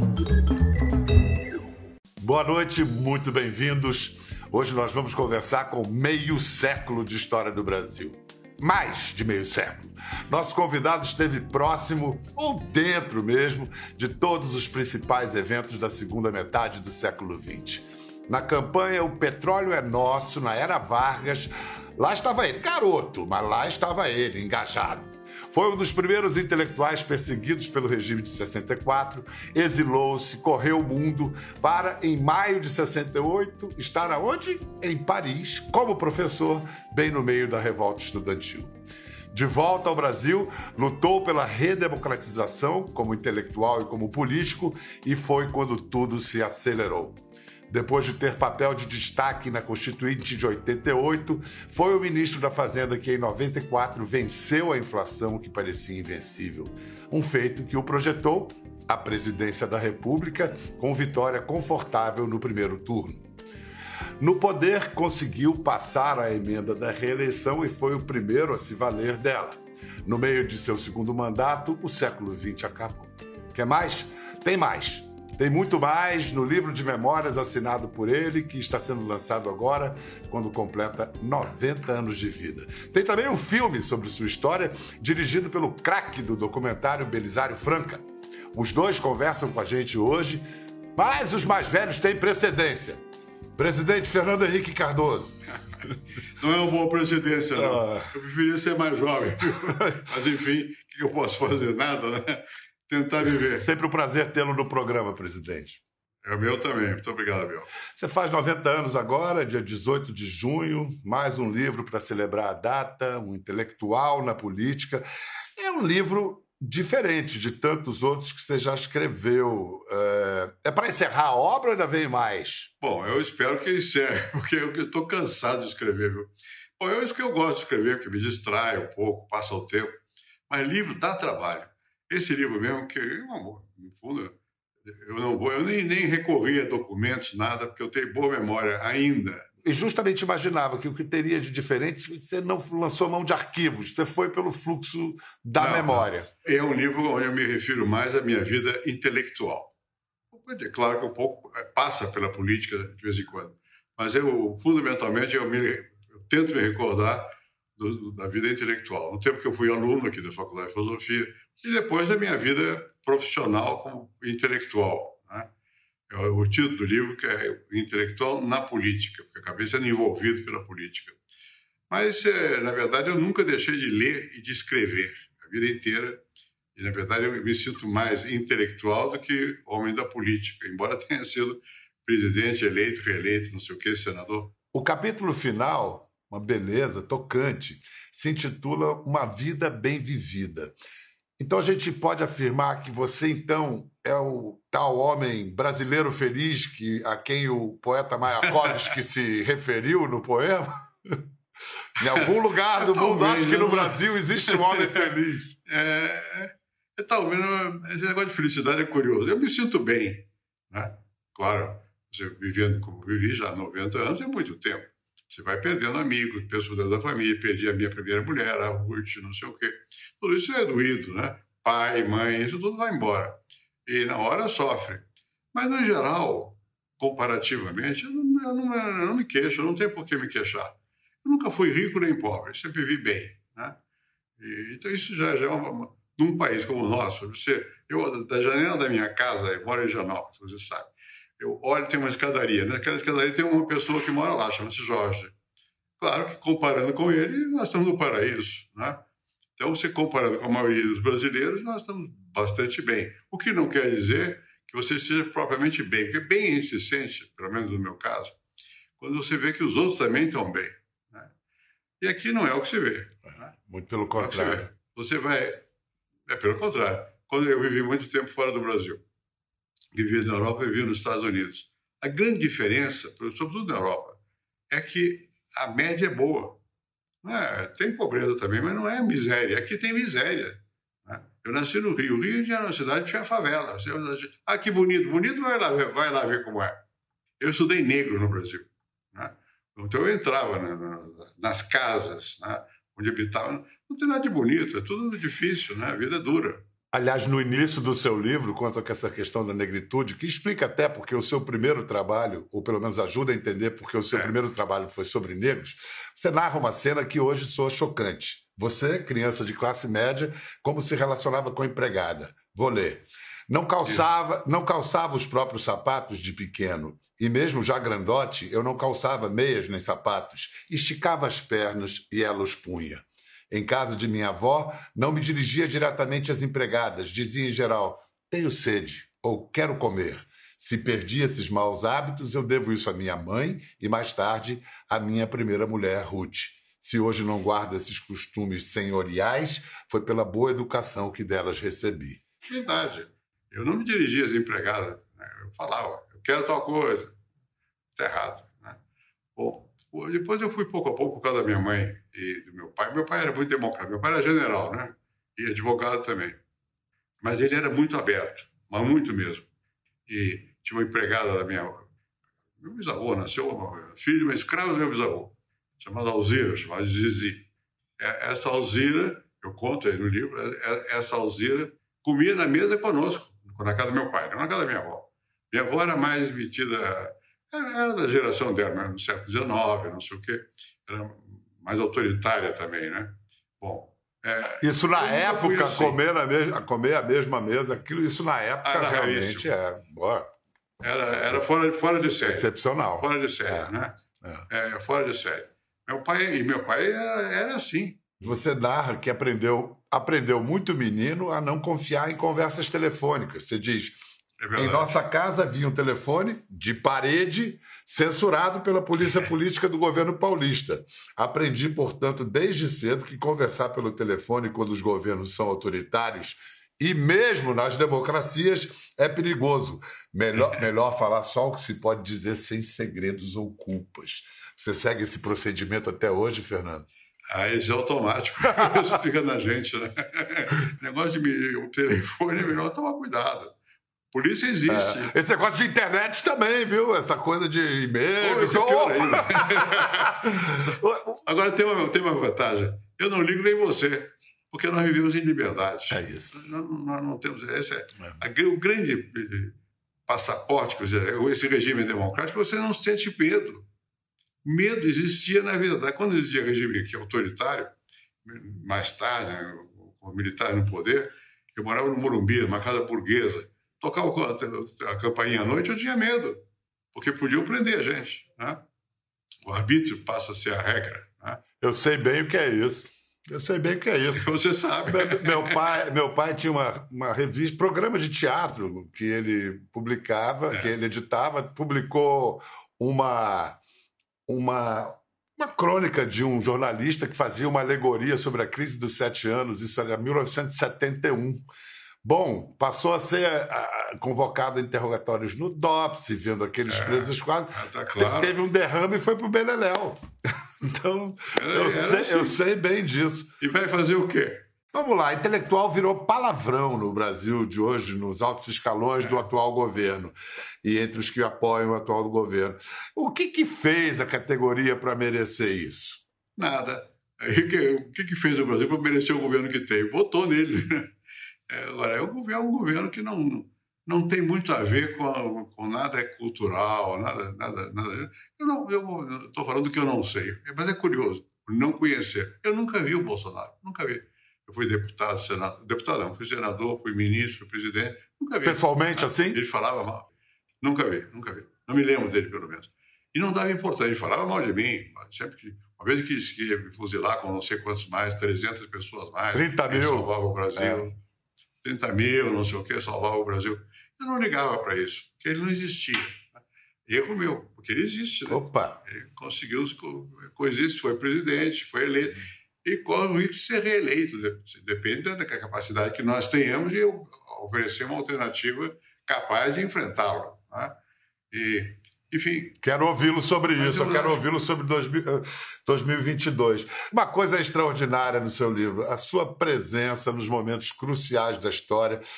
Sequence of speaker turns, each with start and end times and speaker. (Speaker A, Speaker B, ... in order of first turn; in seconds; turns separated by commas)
Speaker A: 2.2-38.7, Speaker A: 39.3-47.2, Speaker A: 47.7-63.3, Speaker A: 64.2-90.5, Speaker A: 91.0-93.0, Speaker A: 93.6-95.3, Speaker B: 96.4-103.7, Speaker A: 97.5-98.1, Speaker A: 99.5-100.1, Speaker A: 103.6-105.8, Speaker B: 106.2-107.7, Speaker A: 107.9-115.0, Speaker A: 115.6-122.7, Speaker B: 122.8-130.0, Speaker B: 130.5-134.3, Speaker B: 134.9-139.5, Speaker A: 139.6-146.3, Speaker B: 145.6-149.7, Speaker B: 150.3-165.5, Speaker B: 166.1-171.2, Speaker B: 171.9-176.2, Speaker B: 176.8-184.5, Speaker A: 184.7-190.8, Speaker A: 191.4-201.2, Speaker B: 198.5-198.8, Speaker A: 202.0-205.6, Speaker B: 202.0-205.1, Speaker B: 205.7-233.8, Speaker B: 234.4-245.3, Speaker B: 246.0-249.0, Speaker B: 249.6-258.4, Speaker B: 259.0-261.3, Speaker B: 262.0-263.5, Speaker A: 263.7-264.7, Speaker B: 264.2-265.6, Speaker B: 266.3-269.0, Speaker B: 269.9-274.2, Speaker B: 274.7-276.6, Speaker B: 277.2-286.8, Speaker B: 287.4-296.6, Speaker A: 296.9-342.2, Speaker B: 342.5-347.2, Speaker B: 348.0-348.8, Speaker B: 349.4-356.4, Speaker B: 357.2-359.5, Speaker B: 360.1-361.9, Speaker B: 362.6-367.4, Speaker B: 368.0-386.0, Speaker A: 384.6-390.3, Speaker B: 388.6-389.5, Speaker B: 390.8-394.0, Speaker A: 392.1-393.7, Speaker B: 394.5-398.2, Speaker A: 398.2-404.0, Speaker B: 404.4-404.9, Speaker A: 404.6-426.9, Speaker B: 427.3-433.5, Speaker B: 434.1-435.1, Speaker A: 434.7-441.2, Speaker B: 438.2-449.6, Speaker A: 445.9-446.4, Speaker B: 450.1-453.6, Speaker B: 454.4-457.7, Speaker B: 458.2-466.4, Speaker B: 466.9-468.6, Speaker B: 469.4-471.4, Speaker A: 471.6-474.3, Speaker B: 474.1-475.7, Speaker A: 474.9-483.6, Speaker A: 484.3-491.4, Speaker A: 492.0-503.3, Speaker B: 496.7-498.4, Speaker B: 501.3-502.4, Speaker B: 503.4-504.4, Speaker A: 504.7-516.0, Speaker B: 516.4-520.9, Speaker B: 521.5-540.1, Speaker A: 538.4-539.4, Speaker B: 540.6-551.0, Speaker A: 549.3-550.8, Speaker B: 551.6-570.7, Speaker A: 558.3-558.8, Speaker B: 571.3-572.6, Speaker A: 572.6-582.0, Speaker B: 573.6-574.2